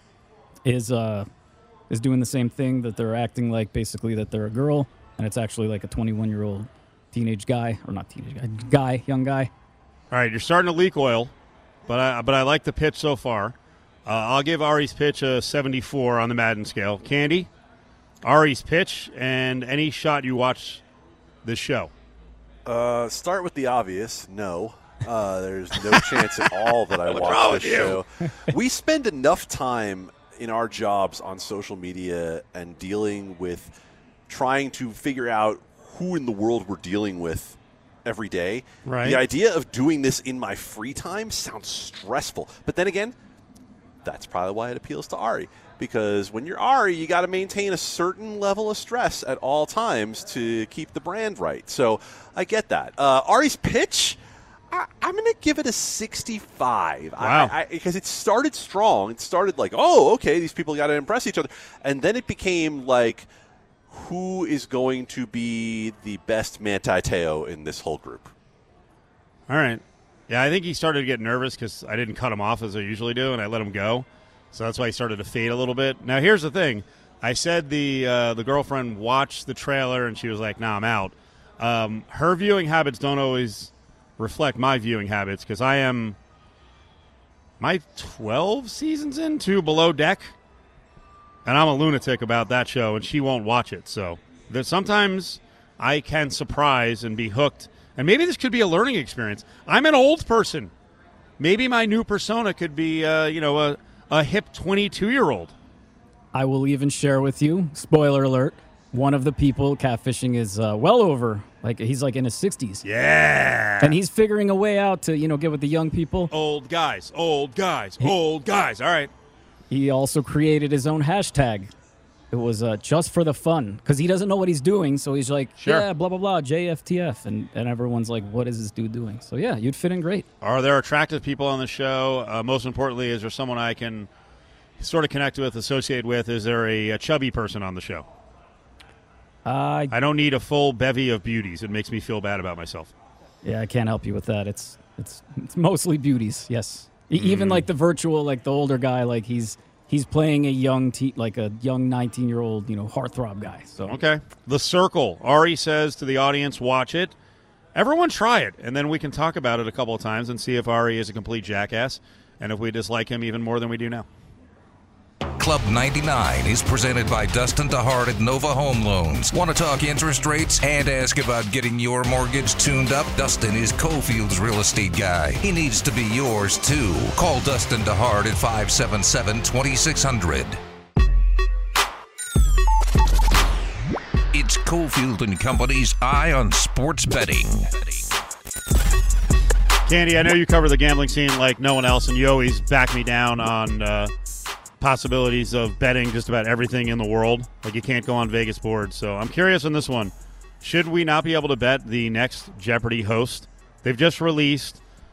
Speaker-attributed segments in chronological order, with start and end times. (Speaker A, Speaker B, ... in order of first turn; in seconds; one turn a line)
Speaker A: 0.6-1.3
Speaker A: 1.9-9.5
Speaker B: 10.1-11.3
Speaker B: 11.9-13.5
Speaker B: 14.1-17.5
Speaker B: 18.2-20.8
Speaker B: 21.4-21.9
Speaker C: 22.6-33.7
Speaker B: 27.1-28.0
Speaker C: 34.3-43.1
Speaker B: 38.8-39.2
Speaker C: 44.0-54.2
Speaker C: 54.7-63.3
Speaker B: 57.2-57.5
Speaker C: 63.9-68.3
Speaker B: 69.5-86.2
Speaker B: 87.6-90.3
Speaker B: 91.4-100.7
Speaker B: 101.4-105.5
Speaker A: 106.3-112.8
Speaker B: 112.8-113.9
Speaker A: 113.8-116.3
Speaker B: 116.3-119.1
Speaker A: 119.7-121.7
Speaker A: 122.3-130.2
Speaker B: 125.6-125.8
Speaker B: 130.4-134.1
Speaker B: 134.8-138.0
Speaker A: 139.4-139.9
Speaker B: 139.9-142.9
Speaker A: 143.4-153.9
Speaker B: 147.2-147.7
Speaker B: 153.9-157.1
Speaker B: 157.7-164.1
Speaker D: 165.4-180.6
Speaker D: 184.3-188.0
Speaker B: 189.8-194.1
Speaker B: 194.8-204.8